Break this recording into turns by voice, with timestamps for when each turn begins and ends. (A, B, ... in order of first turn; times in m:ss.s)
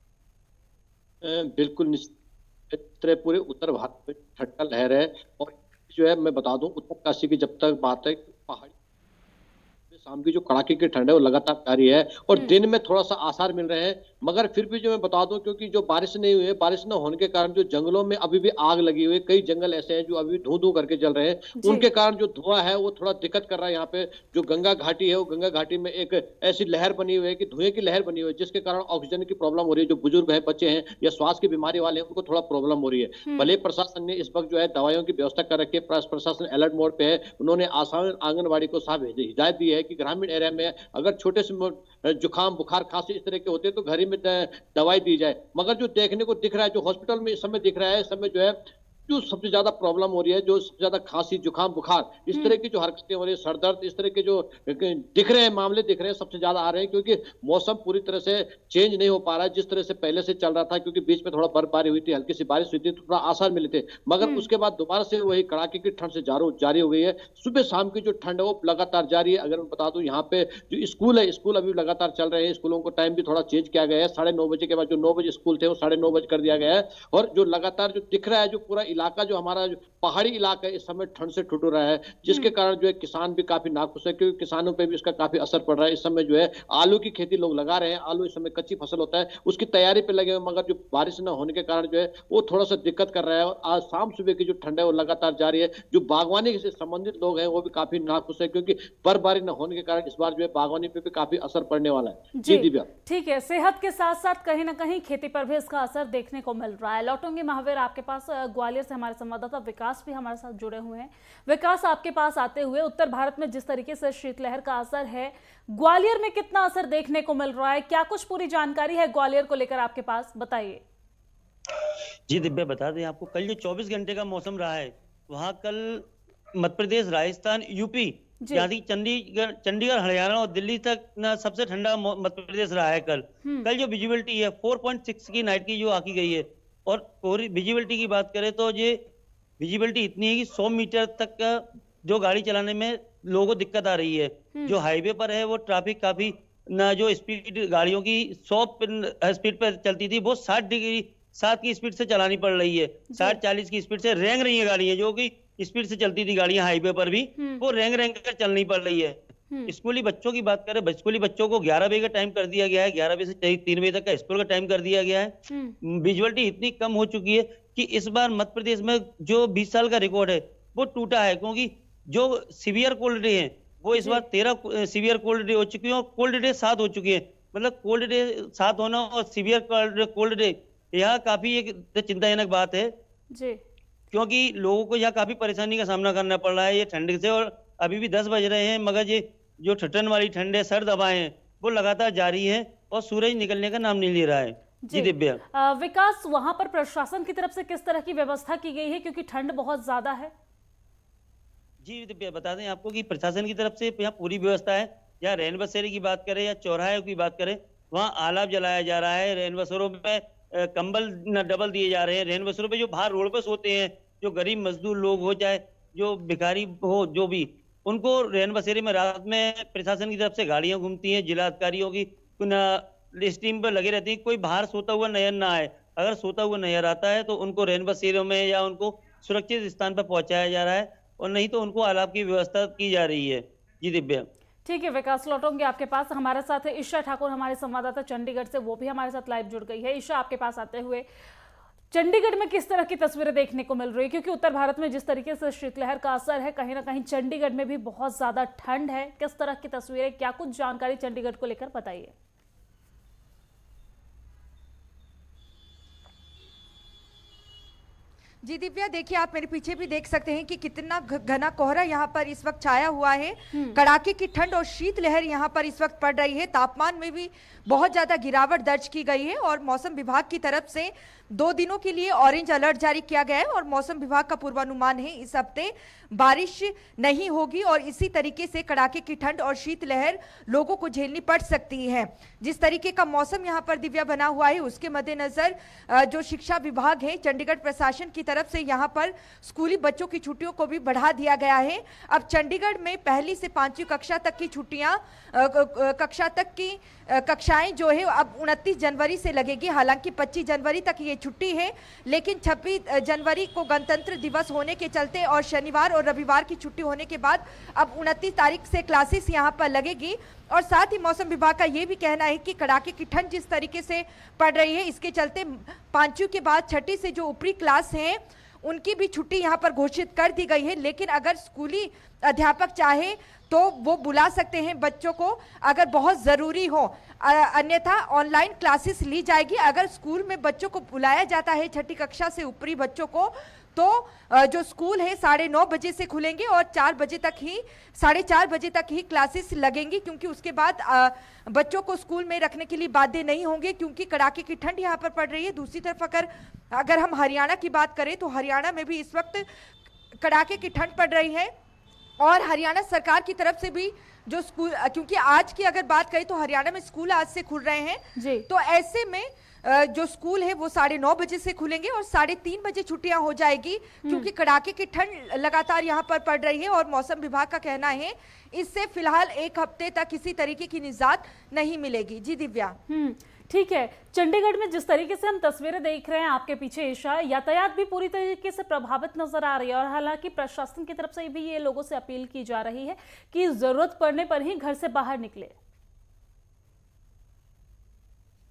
0:01.2-0:02.1 A
0:02.7-0:08.7 A
0:09.9-0:48.5 A
0:21.6-0:21.8 B
0:33.2-0:33.5 B
0:49.1-1:42.9 A
1:04.2-1:04.4 B
1:22.3-1:22.5 B
1:42.4-2:00.8 B
2:02.3-2:06.0 C
2:06.6-2:19.0 C
2:08.4-2:08.7 B
2:19.6-2:45.3 C
2:33.1-2:33.4 B
2:37.4-2:37.6 B
2:45.5-2:45.8 B
2:45.8-3:02.9 C
2:54.0-2:54.2 B
3:03.3-3:03.6 B
3:04.1-3:15.4 C
3:14.8-3:20.3 B
3:21.8-3:54.2 C
3:54.6-4:01.0 B
4:01.9-4:12.1 B
4:18.4-5:49.4 D
4:23.5-4:23.8 B
5:50.2-5:51.5 D
5:52.2-6:12.8 D
5:58.2-5:58.5 B
6:04.0-6:04.3 B
6:12.9-6:25.6 B